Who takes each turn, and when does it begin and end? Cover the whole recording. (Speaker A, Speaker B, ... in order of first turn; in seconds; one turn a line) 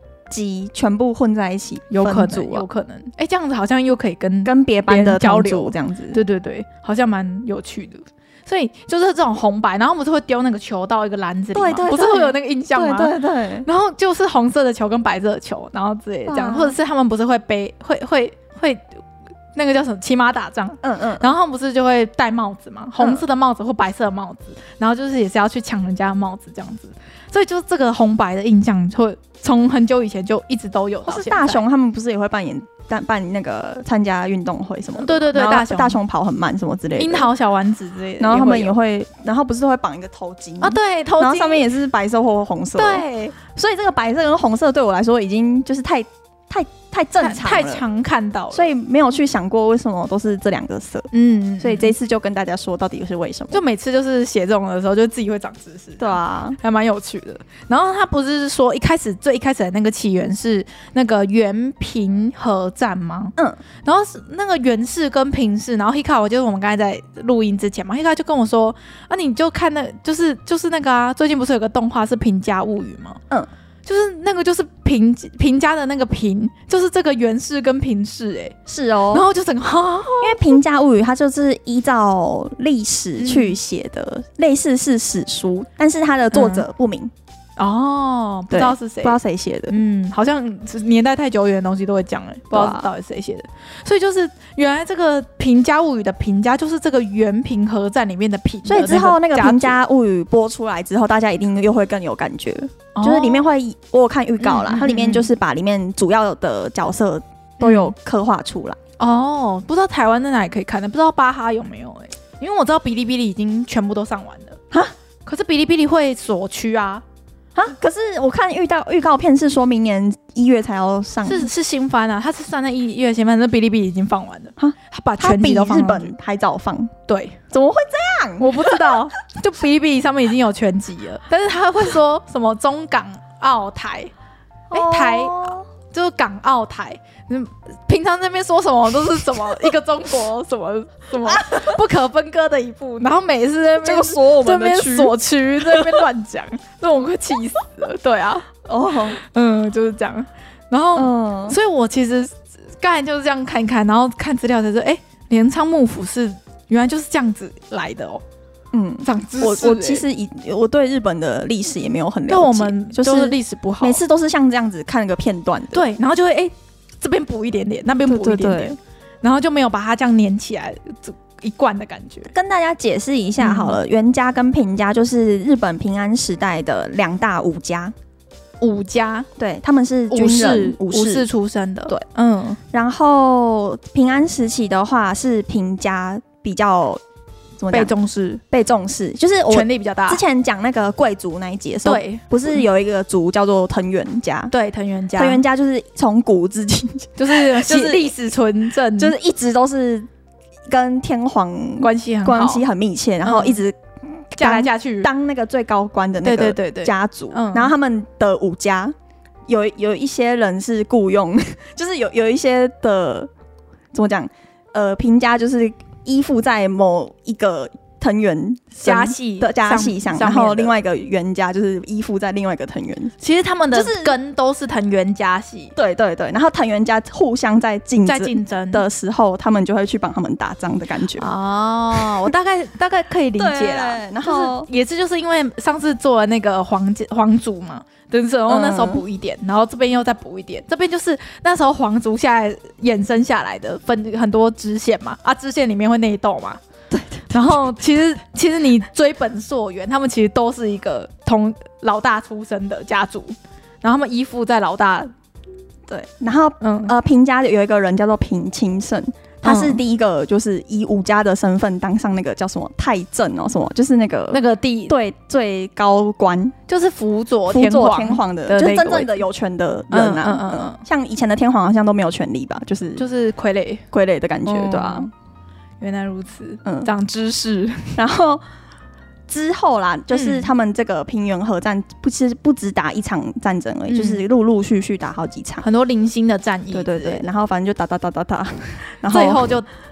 Speaker A: 0.3-2.7
Speaker B: 1.9-18.9
Speaker A: 4.5-6.2
Speaker A: 11.5-13.7
Speaker A: 16.3-16.8
Speaker B: 19.6-31.6
Speaker A: 20.8-21.3
Speaker A: 31.1-37.3
Speaker B: 35.0-36.0
Speaker B: 37.0-38.8
Speaker A: 38.2-47.8
Speaker B: 40.6-41.6
Speaker B: 42.8-43.4
Speaker B: 47.2-48.7
Speaker A: 48.5-53.6
Speaker B: 51.1-51.9
Speaker B: 53.5-73.2
Speaker A: 56.0-56.6
Speaker B: 73.9-78.5
Speaker A: 78.7-79.3
Speaker B: 79.1-80.6
Speaker A: 80.2-87.1
Speaker B: 83.2-83.6
Speaker B: 86.3-86.7
Speaker B: 87.6-89.2
Speaker A: 88.5-89.7
Speaker B: 89.7-99.8
Speaker A: 92.5-92.9
Speaker A: 98.7-108.8
Speaker B: 103.0-103.5
Speaker B: 104.4-105.3
Speaker B: 107.6-107.9
Speaker B: 109.0-114.6
Speaker B: 115.3-117.0
Speaker A: 117.5-121.5
Speaker B: 121.2-126.1
Speaker A: 124.6-126.9
Speaker B: 127.1-127.4
Speaker A: 127.5-129.0
Speaker B: 128.4-134.1
Speaker A: 134.7-135.7
Speaker B: 134.7-148.5
Speaker A: 141.3-141.8
Speaker A: 143.8-146.0
Speaker A: 148.6-149.2
Speaker B: 149.1-158.2
Speaker A: 150.9-151.6
Speaker A: 158.7-165.9
Speaker B: 159.0-160.0
Speaker B: 162.3-164.0
Speaker B: 165.7-172.3
Speaker A: 168.1-168.8
Speaker A: 172.3-177.9
Speaker B: 173.4-173.8
Speaker B: 178.6-179.3
Speaker A: 179.4-181.3
Speaker B: 180.1-182.6
Speaker A: 182.7-187.0
Speaker A: 187.6-187.9
Speaker B: 187.7-188.4
Speaker A: 188.5-194.5
Speaker B: 189.5-190.2
Speaker B: 191.8-192.6
Speaker B: 194.5-195.4
Speaker A: 195.2-198.1
Speaker B: 197.2-199.2
Speaker A: 199.0-200.1
Speaker A: 200.7-208.9
Speaker B: 201.8-202.6
Speaker B: 203.2-203.6
Speaker B: 204.4-205.1
Speaker B: 206.2-207.7
Speaker A: 209.5-213.3
Speaker A: 213.9-223.1
Speaker B: 218.8-220.8
Speaker B: 223.2-225.7
Speaker A: 223.7-224.1
Speaker A: 225.8-231.3
Speaker B: 228.1-228.8
Speaker B: 231.2-246.6
Speaker A: 232.0-232.3
Speaker A: 233.4-234.7
Speaker A: 238.5-239.0
Speaker A: 246.9-247.4
Speaker B: 247.3-255.1
Speaker A: 255.9-266.6
Speaker B: 256.6-256.9
Speaker B: 259.4-259.8
Speaker B: 264.3-265.0
Speaker B: 266.7-269.2
Speaker A: 267.5-273.1
Speaker B: 269.9-270.8
Speaker B: 273.0-273.8
Speaker A: 273.9-275.1
Speaker B: 274.5-275.1
Speaker B: 275.8-278.0
Speaker A: 276.6-276.9
Speaker A: 278.0-278.4
Speaker A: 279.3-285.6
Speaker B: 280.1-280.5
Speaker B: 283.9-284.2
Speaker B: 285.6-287.2
Speaker A: 286.7-289.6
Speaker B: 289.1-289.7